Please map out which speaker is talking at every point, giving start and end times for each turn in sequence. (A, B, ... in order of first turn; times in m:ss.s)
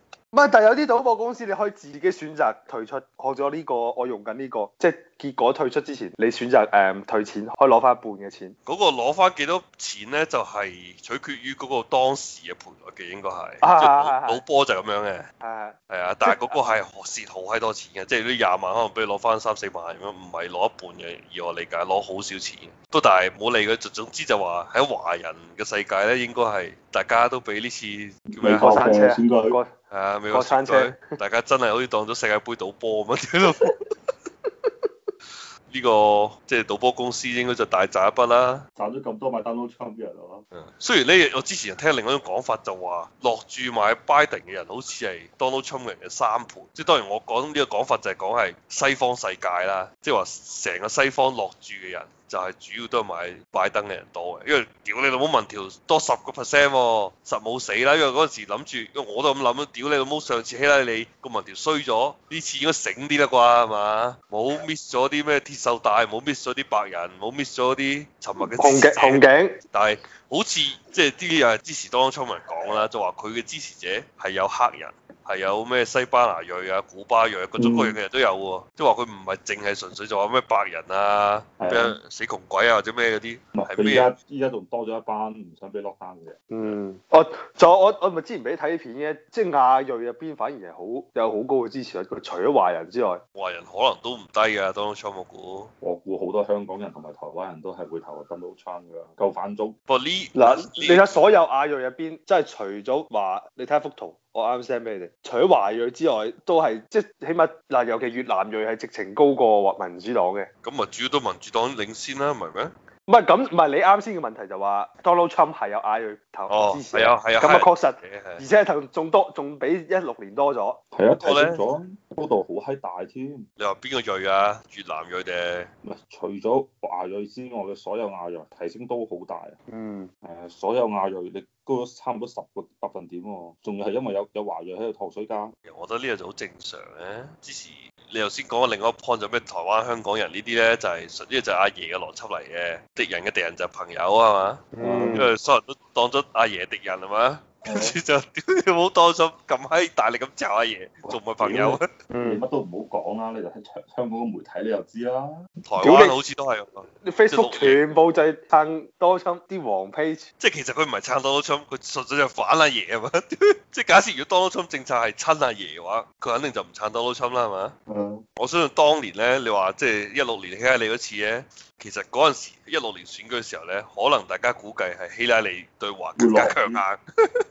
0:00.3-0:08.6 A
0:08.7-0:15.3 B
0:13.6-0:14.4 A
0:15.4-0:16.6 A
0:15.9-0:28.8 B
0:28.4-0:29.6 C
0:28.5-0:29.7 A
0:29.9-0:33.8 B
0:30.3-0:31.0 A
0:35.7-0:38.6 B
0:38.8-0:40.4 C
0:40.5-1:24.1 B
1:08.5-1:09.5 A
1:17.6-1:18.0 C
1:21.6-1:22.0 C
1:23.5-1:26.4 C
1:26.5-1:33.2 A
1:33.4-1:35.7 B
1:35.8-1:39.8 C
1:39.9-1:41.3 B
1:40.4-1:50.5 A
1:50.6-1:52.7 B
1:53.1-2:00.8 A
1:56.5-1:58.4 B
2:00.9-2:03.4 C
2:01.2-2:01.6 B
2:03.6-2:05.7 B
2:05.8-2:09.6 C
2:09.7-2:10.1 A
2:10.2-2:15.5 C
2:15.7-2:31.9 B
2:24.7-2:25.3 A
2:24.8-2:25.3 C
2:27.6-2:28.0 C
2:31.1-2:35.4 C
2:32.1-2:32.4 A
2:35.7-2:37.8 B
2:35.8-2:36.2 A
2:37.0-2:40.3 A
2:40.4-2:47.7 B
2:47.9-2:48.2 C
2:48.4-2:57.0 B
2:56.2-2:56.8 C